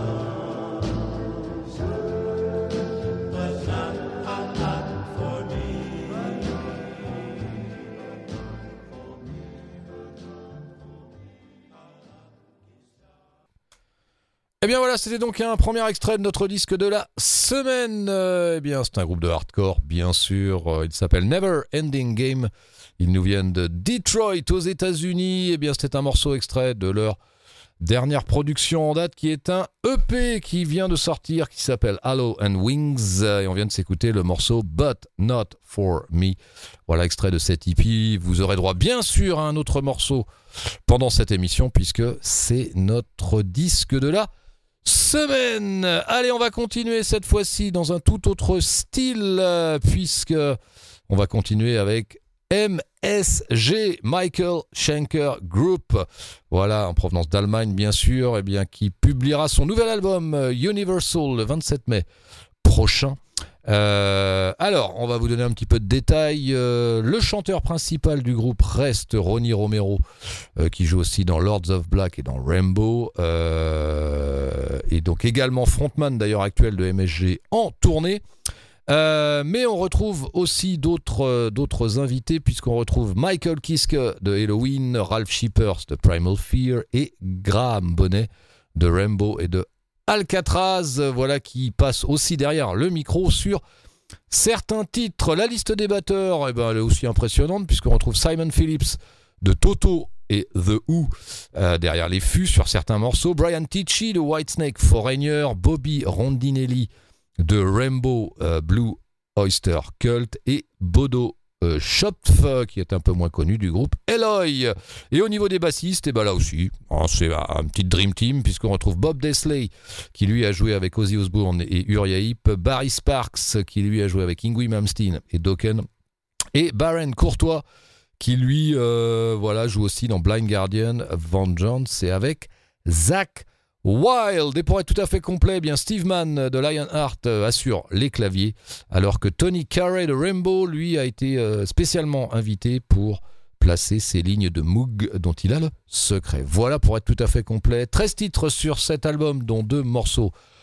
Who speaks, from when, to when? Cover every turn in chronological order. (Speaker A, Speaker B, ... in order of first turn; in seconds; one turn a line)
Speaker A: 14.6-27.2
Speaker A: 27.8-40.3
Speaker A: 40.9-44.3
Speaker A: 44.8-50.6
Speaker A: 51.1-62.0
Speaker A: 62.6-70.0
Speaker A: 70.6-78.2
Speaker A: 78.9-93.6
Speaker A: 94.3-106.9
Speaker A: 107.4-125.9
Speaker A: 126.5-127.6
Speaker A: 128.2-150.3